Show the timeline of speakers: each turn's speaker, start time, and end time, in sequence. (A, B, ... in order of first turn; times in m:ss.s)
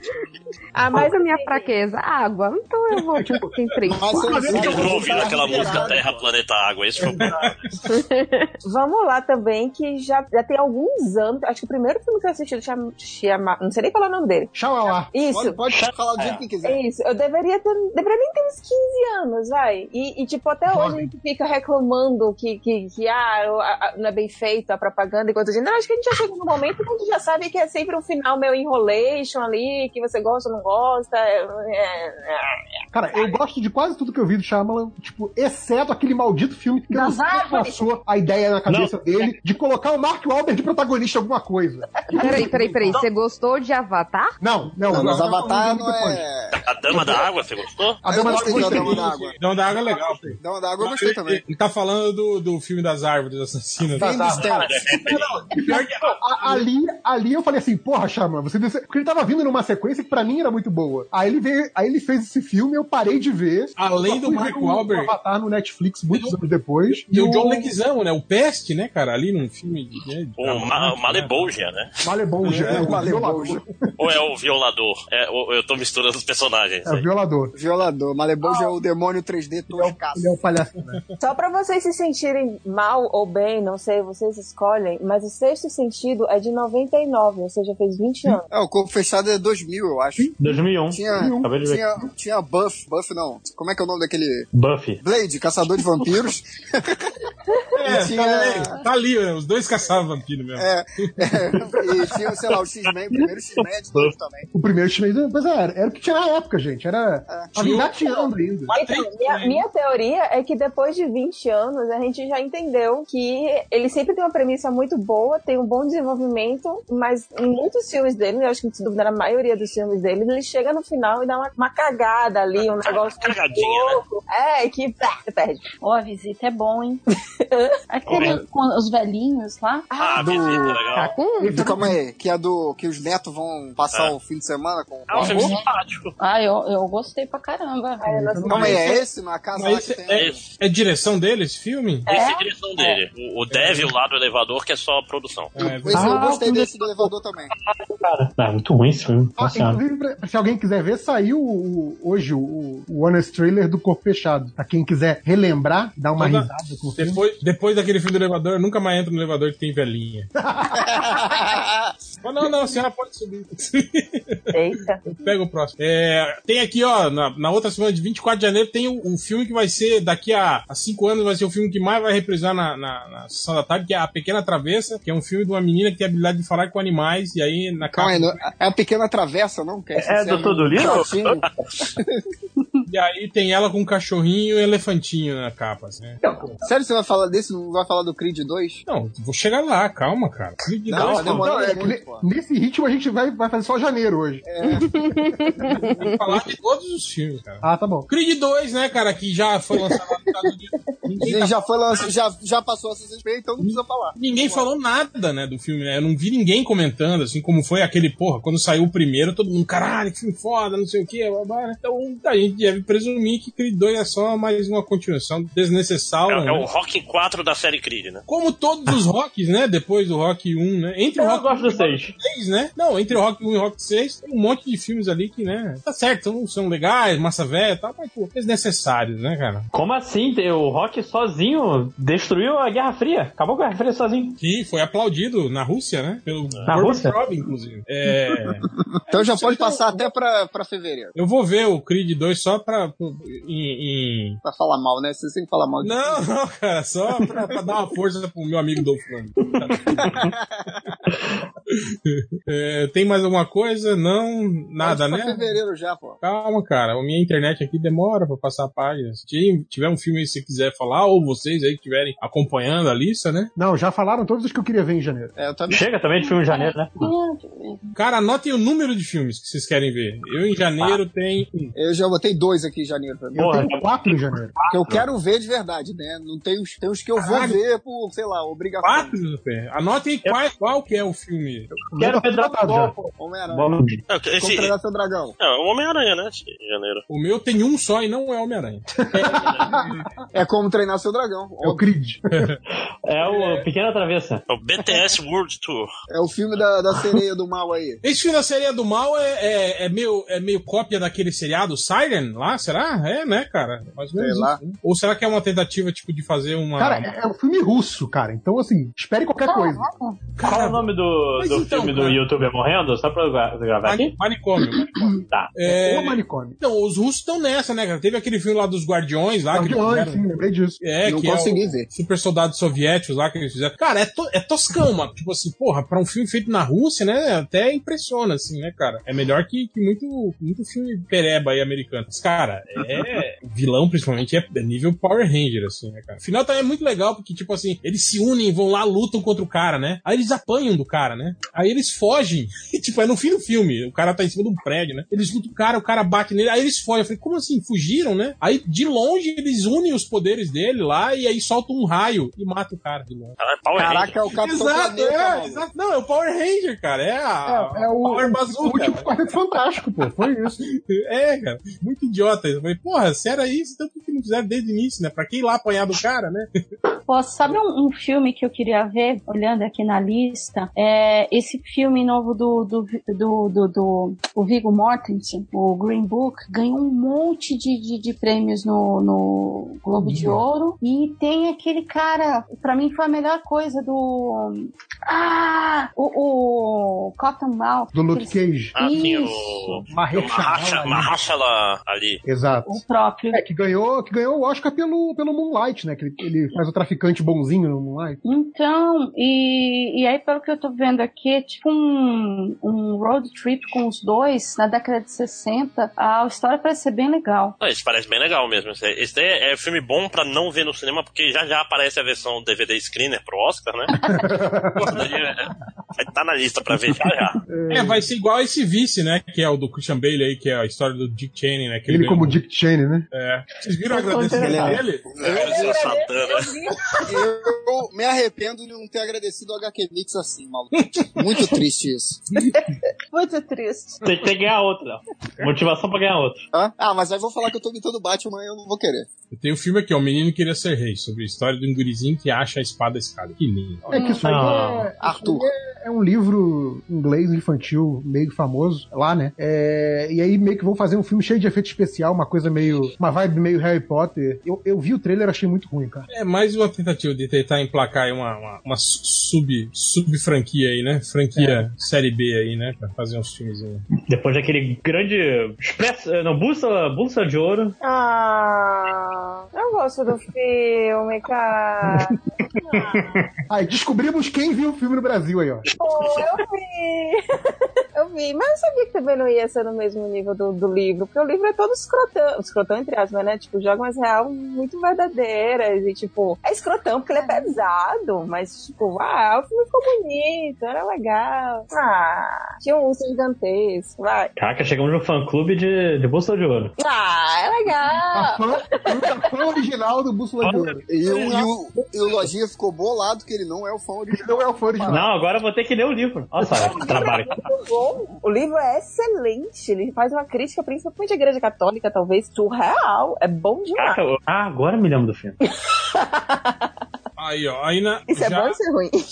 0:00.7-0:01.7 A
0:00.8-0:04.7 B
0:03.8-0:06.3 C
0:04.1-0:06.0 D
0:04.5-0:07.6 E
0:07.0-0:07.3 D
0:07.1-0:07.8 F
0:07.8-0:08.5 B
0:08.7-0:14.5 A
0:14.5-0:15.1 D
0:15.1-0:15.6 A
0:15.3-0:16.8 C
0:15.7-0:16.4 G
0:16.6-0:32.5 A
0:20.7-0:21.1 D
0:32.9-0:43.0 D
0:36.9-0:37.7 A
0:42.1-0:44.4 B
0:44.4-0:46.2 D
0:44.9-0:47.2 C
0:46.6-0:48.0 E
0:46.9-0:47.2 D
0:48.0-0:49.3 D
0:48.1-0:49.4 C
0:48.6-0:56.6 F
0:50.4-0:51.4 C
0:54.0-0:54.5 D
0:54.2-0:55.5 E
0:54.3-0:55.0 C
0:55.5-1:07.7 D
1:03.8-1:05.1 F
1:07.0-1:11.5 F
1:10.4-1:11.9 E
1:12.0-1:14.2 D
1:12.5-1:12.9 F
1:12.6-1:13.6 C
1:14.0-1:17.1 E
1:16.8-1:17.5 D
1:17.5-1:20.4 C
1:18.4-1:18.7 A
1:19.7-1:21.0 D
1:21.2-1:28.4 A
1:28.5-1:30.3 C
1:30.2-1:31.5 D
1:30.4-1:31.8 G
1:30.9-1:34.5 C
1:34.5-1:35.0 G
1:35.0-1:37.1 C
1:37.7-1:40.7 F
1:37.8-1:38.8 C
1:40.6-1:44.5 C
1:44.5-1:48.7 D
1:47.3-1:47.5 C
1:47.6-1:47.9 F
1:48.7-1:49.6 F
1:48.7-2:05.7 A
2:02.6-2:04.0 E
2:05.8-2:07.0 H
2:07.4-2:07.7 A
2:07.9-2:09.9 H
2:09.9-2:10.7 A
2:10.0-2:11.2 E
2:10.2-2:10.8 C
2:10.9-2:11.6 B
2:11.4-2:12.0 D
2:11.5-2:15.5 C
2:15.1-2:16.1 E
2:15.2-2:15.6 H
2:16.2-2:18.2 H
2:18.0-2:19.0 A
2:18.2-2:18.9 D
2:18.5-2:20.4 C
2:19.5-2:22.1 F
2:22.1-2:22.9 A
2:22.1-2:25.5 E
2:23.5-2:23.9 F
2:25.5-2:26.2 F
2:25.6-2:27.5 C
2:25.9-2:26.7 G
2:27.8-2:29.8 G
2:29.4-2:37.2 D
2:36.2-2:40.3 F
2:40.4-2:41.3 D
2:40.8-2:41.7 C
2:42.2-2:44.5 F
2:44.5-2:45.0 A
2:45.0-2:58.4 F
2:57.9-3:02.2 C
2:59.9-3:01.2 G
3:02.9-3:06.2 F
3:06.6-3:08.8 C
3:08.8-3:11.5 F
3:10.9-3:12.2 C
3:11.0-3:14.4 D
3:14.4-3:14.9 C
3:14.8-3:16.4 B
3:15.8-3:22.1 F
3:17.6-3:18.1 D
3:21.2-3:24.7 C
3:23.6-3:36.7 F
3:36.3-3:38.2 E
3:38.3-3:49.7 F
3:41.2-3:42.2 G
3:49.7-3:54.4 G
3:54.4-3:59.8 F
3:56.6-3:57.2 G
3:59.1-4:01.1 C
4:01.1-4:04.4 F
4:04.4-4:06.2 C
4:05.8-4:10.0 F
4:09.9-4:10.7 C
4:11.7-4:15.6 F
4:14.8-4:16.2 C
4:16.2-4:23.5 F
4:23.6-4:25.3 D
4:25.4-4:25.8 C
4:25.7-4:27.1 G
4:26.2-4:27.9 H
4:27.9-4:31.7 F
4:31.7-4:33.4 C
4:33.3-4:34.5 D
4:33.4-4:33.8 G
4:34.6-4:35.0 G
4:34.7-4:39.1 C
4:37.2-4:37.6 F
4:38.8-4:41.7 F
4:41.9-4:43.1 D
4:42.0-4:44.0 G
4:43.2-4:45.4 C
4:44.1-4:44.7 E
4:45.4-4:47.0 E
4:47.1-4:50.0 F
4:49.1-4:50.0 D
4:50.3-4:51.8 C
4:51.6-4:52.5 D
4:52.3-4:52.6 F
4:53.0-4:54.4 G
4:53.2-4:53.6 F
4:54.5-4:55.9 E
4:54.8-4:55.1 C
4:56.1-4:58.0 C
4:58.0-5:07.1 F
5:04.1-5:04.6 C
5:06.8-5:09.9 D
5:09.4-5:10.2 H
5:10.4-5:10.8 F
5:10.4-5:14.2 G
5:11.4-5:12.2 F
5:13.8-5:14.9 F
5:15.5-5:20.2 F
5:15.6-5:16.6 D
5:19.5-5:20.8 D
5:20.8-5:53.4 F
5:21.0-5:21.9 C
5:53.4-5:54.2 E
5:53.7-5:55.6 C
5:54.3-5:59.1 F
5:57.4-6:00.6 D
6:00.6-6:06.5 F
6:07.1-6:29.8 H
6:20.0-6:20.4 D
6:27.9-6:28.8 D
6:28.7-6:32.2 E
6:29.9-6:31.2 D
6:32.2-6:32.8 D
6:32.6-6:33.4 H
6:33.3-6:38.2 D
6:38.2-6:47.5 H
6:47.6-6:53.9 E
6:54.0-6:55.1 D
6:54.8-6:57.4 E
6:57.5-6:58.0 D
6:57.7-7:02.4 F
7:01.9-7:03.1 D
7:03.1-7:05.7 F
7:04.2-7:04.4 A
7:04.3-7:05.9 C
7:05.2-7:06.5 E
7:05.3-7:07.1 A
7:07.1-7:12.3 C
7:10.8-7:11.1 F
7:13.1-7:14.0 A
7:14.0-7:16.4 G
7:16.5-7:19.1 C
7:19.3-7:23.9 F
7:23.9-7:36.1 D
7:24.2-7:24.9 G
7:25.0-7:25.4 C
7:36.1-7:43.8 F
7:41.4-7:41.6 D
7:44.1-7:47.7 G
7:47.8-7:53.2 A
7:52.8-7:53.2 G
7:53.5-7:55.6 D
7:55.8-7:57.2 A
7:57.9-8:14.3 A
8:07.2-8:07.4 H
8:14.4-8:16.7 G
8:16.8-8:18.4 A
8:18.1-8:20.8 D
8:20.4-8:21.4 G
8:20.9-8:25.0 C
8:24.1-8:25.1 D
8:24.9-8:27.3 G
8:26.5-8:34.0 A
8:33.8-8:35.4 G
8:35.9-8:36.5 A
8:37.2-8:38.6 F
8:38.1-8:39.0 A